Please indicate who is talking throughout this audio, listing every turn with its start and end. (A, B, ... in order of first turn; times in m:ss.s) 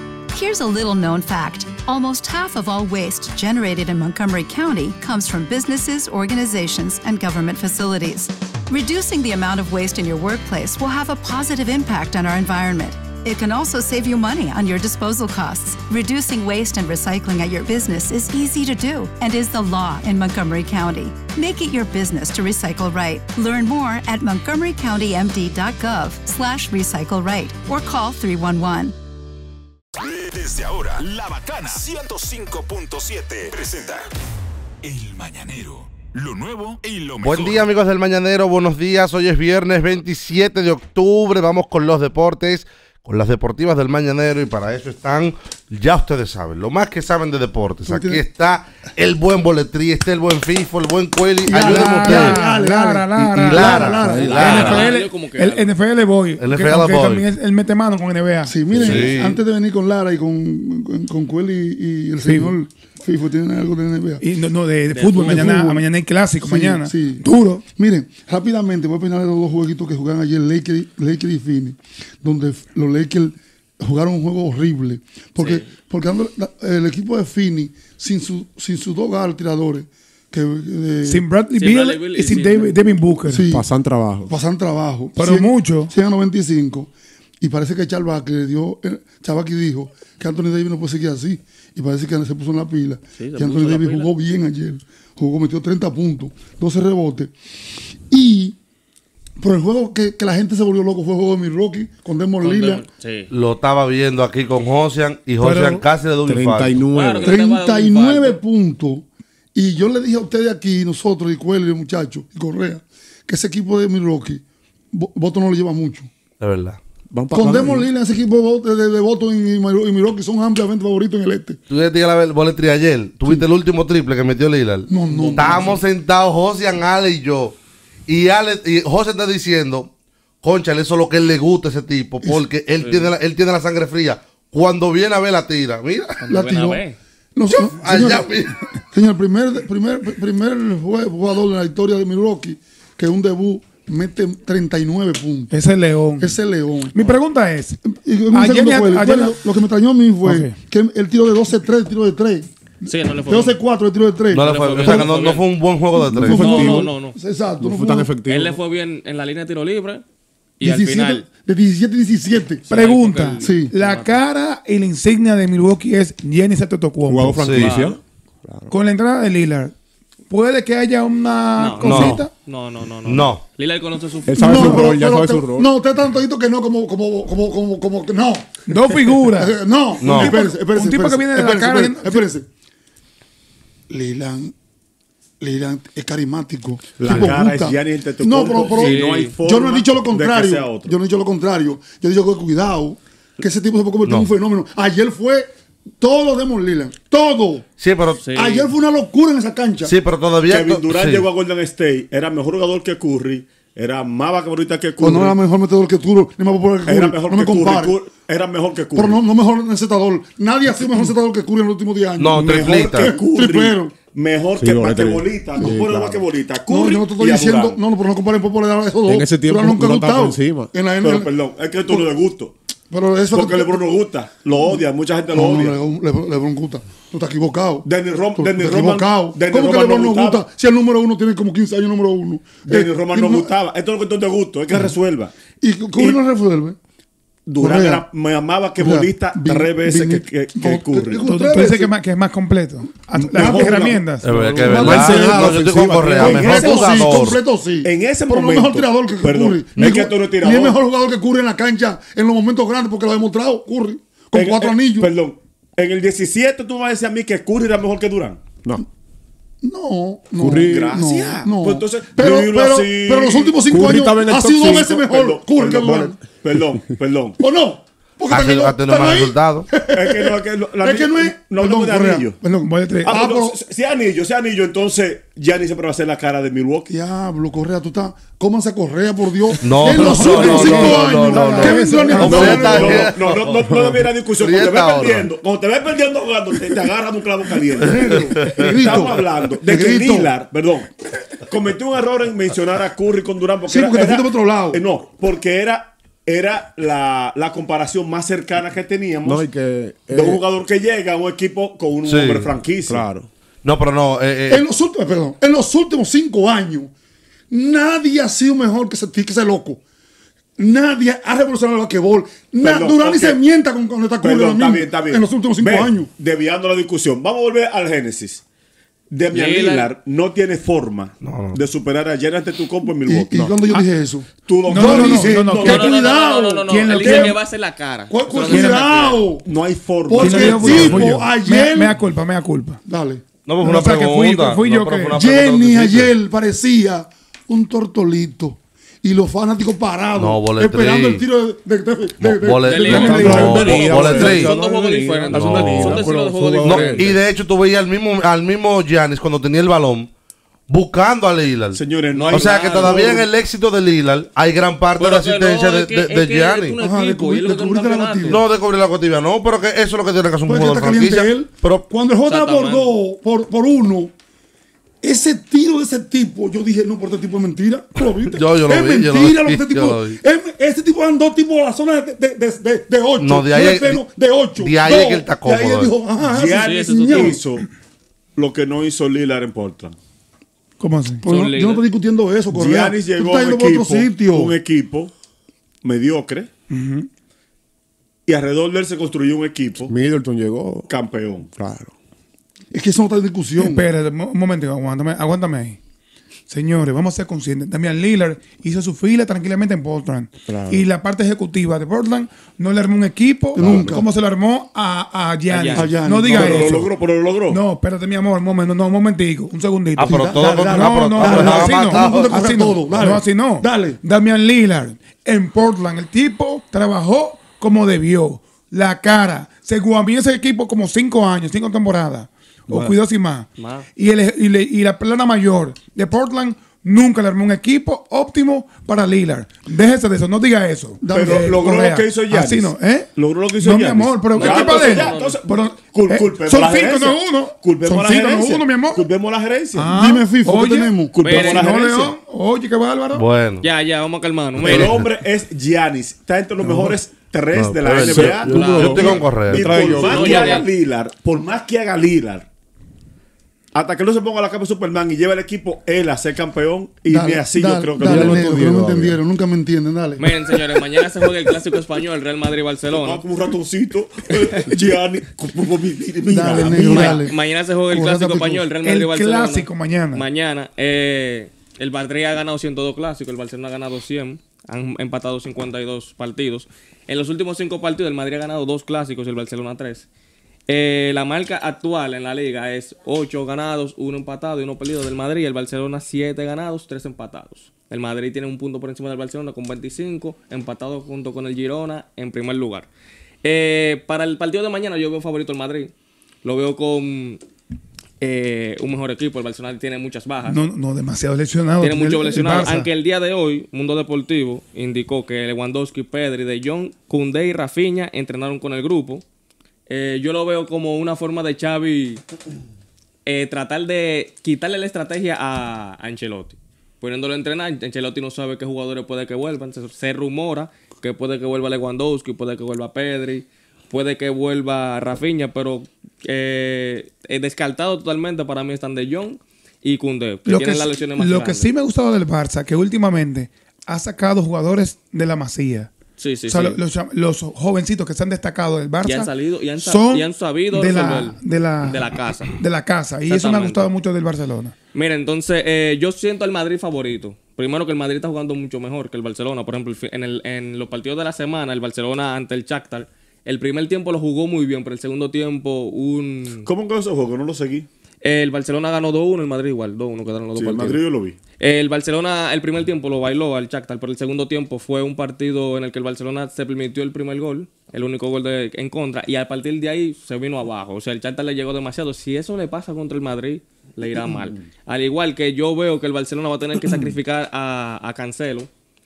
0:00.3-0:29.0 A
0:30.0-0:34.0 B
0:34.8-0:37.7 B
0:37.2-0:52.4 C
0:47.8-0:48.2 D
0:51.5-0:54.8 D
0:51.5-0:59.0 E
0:53.3-0:54.9 C
0:54.1-0:55.7 F
0:56.4-0:57.2 C
0:58.5-1:04.2 D
0:58.7-0:59.4 C
1:02.2-1:02.6 E
1:04.2-1:07.6 E
1:04.9-1:05.6 F
1:05.2-1:05.8 D
1:06.4-1:21.2 D
1:15.4-1:15.7 F
1:21.0-1:23.5 E
1:21.5-1:22.8 F
1:23.3-1:23.6 D
1:23.5-1:24.3 G
1:24.3-1:26.9 D
1:25.2-1:25.9 E
1:27.4-1:37.3 D
1:33.2-1:34.1 F
1:38.1-1:38.6 D
1:39.4-1:42.8 D
1:42.4-1:43.3 F
1:43.3-1:46.8 C
1:45.4-1:45.8 E
1:46.3-1:47.4 G
1:46.9-1:48.4 F
1:47.2-1:56.1 D
1:56.4-1:56.8 C
1:57.1-1:57.9 G
1:57.3-2:01.6 D
2:01.7-2:09.9 C
2:04.9-2:05.8 D
2:05.2-2:05.5 G
2:10.4-2:16.2 C
2:12.8-2:13.1 F
2:16.2-2:17.0 F
2:16.3-2:16.8 D
2:17.4-2:25.5 D
2:17.5-2:18.6 C
2:25.5-2:26.3 E
2:26.2-2:27.0 D
2:26.9-2:27.8 E
2:27.8-2:32.5 D
2:28.3-2:29.4 E
2:30.2-2:30.6 E
2:32.8-2:33.6 F
2:33.3-2:35.1 D
2:34.3-2:36.5 C
2:34.3-2:35.5 F
2:36.0-2:38.1 D
2:36.1-2:37.2 F
2:36.3-2:36.9 G
2:37.6-2:38.6 G
2:38.2-2:40.0 F
2:40.6-2:41.3 F
2:40.6-2:42.7 D
2:42.7-2:44.2 F
2:42.7-2:47.5 E
2:43.4-2:43.7 D
2:47.1-2:48.7 G
2:47.4-2:47.8 C
2:47.6-2:48.0 F
2:48.7-2:49.7 E
2:50.3-2:52.3 E
2:51.6-2:54.8 F
2:51.8-2:52.2 C
2:53.0-2:53.4 C
2:54.3-2:55.7 G
2:54.4-3:02.5 D
2:54.5-2:54.9 E
2:58.7-3:02.3 E
3:00.0-3:00.4 C
3:03.9-3:04.5 D
3:05.4-3:17.7 D
3:07.0-3:10.9 H
3:07.1-3:07.3 E
3:08.6-3:09.4 F
3:17.8-3:18.3 C
3:18.2-3:18.7 F
3:18.3-3:19.9 D
3:19.8-3:21.3 C
3:20.5-3:25.4 H
3:25.0-3:28.0 D
3:26.9-3:29.2 H
3:29.0-3:34.0 D
3:32.2-3:33.2 C
3:32.4-3:37.8 H
3:34.6-3:36.2 G
3:36.7-3:41.3 D
3:39.1-3:40.7 G
3:41.0-3:42.5 H
3:42.9-3:43.9 D
3:43.3-3:45.8 H
3:45.3-3:53.5 D
3:47.8-3:50.5 H
3:52.7-3:55.3 H
3:55.6-3:56.8 D
3:57.5-4:01.2 H
3:57.6-3:58.1 D
3:58.8-4:02.0 D
4:01.2-4:04.3 E
4:03.2-4:04.0 D
4:03.4-4:04.0 H
4:04.2-4:07.4 C
4:04.3-4:06.7 G
4:04.5-4:15.1 D
4:06.2-4:07.2 H
4:07.8-4:10.8 H
4:14.3-4:18.4 H
4:19.6-4:26.2 D
4:20.4-4:21.0 G
4:20.6-4:23.8 H
4:23.7-4:26.2 G
4:24.6-4:27.4 H
4:27.4-4:33.6 D
4:28.3-4:29.7 C
4:29.9-4:32.4 H
4:32.5-4:33.2 E
4:33.0-4:36.9 H
4:36.9-4:43.2 D
4:39.6-4:43.5 C
4:39.8-4:43.0 E
4:42.3-4:48.1 H
4:43.6-4:44.1 G
4:44.3-4:45.3 C
4:47.8-4:50.3 D
4:48.3-4:48.6 C
4:48.7-4:50.9 H
4:51.5-4:59.4 H
4:53.7-4:54.8 D
4:59.2-5:00.4 G
5:00.1-5:03.0 H
5:02.0-5:02.5 C
5:02.9-5:03.3 G
5:03.6-5:04.7 C
5:04.5-5:06.9 D
5:07.5-5:09.8 D
5:10.6-5:16.1 D
5:12.6-5:13.4 H
5:14.2-5:18.4 H
5:19.1-5:23.5 H
5:19.3-5:19.9 F
5:21.2-5:21.6 C
5:23.1-5:27.4 D
5:24.5-5:25.8 H
5:24.7-5:26.0 E
5:25.6-5:29.3 F
5:26.7-5:27.4 E
5:28.1-5:29.4 D
5:28.5-5:28.9 E
5:29.4-5:31.0 H
5:30.1-5:32.0 D
5:30.2-5:32.8 E
5:30.7-5:31.1 C
5:32.9-5:33.2 D
5:33.5-5:36.1 C
5:33.6-5:35.2 E
5:35.2-5:43.8 D
5:40.2-5:41.2 C
5:42.2-5:44.6 C
5:42.7-5:47.2 F
5:42.9-5:47.1 G
5:45.3-5:46.1 C
5:46.6-5:50.1 C
5:50.7-5:56.8 C
5:51.7-5:53.2 H
5:52.1-5:53.2 F
5:55.0-5:58.4 F
5:56.8-5:58.4 D
5:58.3-6:01.8 C
6:00.5-6:04.1 D
6:02.3-6:02.9 F
6:05.0-6:17.4 D
6:08.3-6:10.2 C
6:13.2-6:14.0 C
6:14.6-6:16.0 C
6:16.3-6:17.7 H
6:16.6-6:17.4 F
6:18.4-6:20.0 H
6:20.8-6:21.2 E
6:21.2-6:21.8 F
6:21.2-6:24.6 D
6:22.5-6:25.1 H
6:25.8-6:26.5 H
6:26.7-6:27.1 E
6:28.3-6:29.9 H
6:29.9-6:30.9 G
6:30.9-6:31.5 H
6:31.5-6:31.9 G
6:32.7-6:33.9 D
6:33.6-6:35.8 E
6:36.5-6:46.9 E
6:40.5-6:40.9 G
6:43.6-6:44.0 G
6:43.6-6:44.1 D
6:45.5-6:46.0 F
6:45.7-6:46.9 D
6:46.3-6:47.6 H
6:47.5-7:19.1 E
6:50.0-6:52.4 C
6:50.0-6:54.0 D
7:03.6-7:03.9 F
7:11.0-7:11.7 D
7:11.1-7:20.0 H
7:14.3-7:15.4 F
7:19.7-7:23.2 E
7:19.9-7:21.3 D
7:21.1-7:22.1 H
7:21.2-7:21.7 F
7:23.1-7:23.7 C
7:23.6-7:25.0 F
7:24.6-7:28.5 H
7:24.7-7:25.1 C
7:26.6-7:27.0 G
7:27.5-7:29.7 C
7:28.0-7:30.6 G
7:28.4-7:30.7 F
7:29.0-7:32.5 H
7:33.7-7:38.4 H
7:37.1-7:40.2 D
7:38.0-7:39.2 G
7:40.2-7:43.2 F
7:42.9-7:46.8 H
7:46.3-7:47.4 D
7:46.6-8:00.1 F
7:46.8-7:47.2 E
7:47.9-7:48.7 D
7:48.8-7:50.2 E
8:00.7-8:12.9 F
8:13.4-8:15.9 F
8:16.4-8:17.4 F
8:18.2-8:20.6 F
8:20.4-8:22.9 E
8:21.8-8:29.2 F
8:29.9-8:32.2 F
8:33.3-8:51.7 F
8:50.5-8:55.9 E
8:56.2-8:56.8 F
8:56.5-9:04.8 E
8:59.0-9:02.6 F
9:03.3-9:03.9 F
9:04.9-9:16.7 F
9:16.7-9:17.9 H
9:18.2-9:21.0 F
9:20.6-9:21.4 H
9:21.6-9:38.7 F
9:36.8-9:37.1 E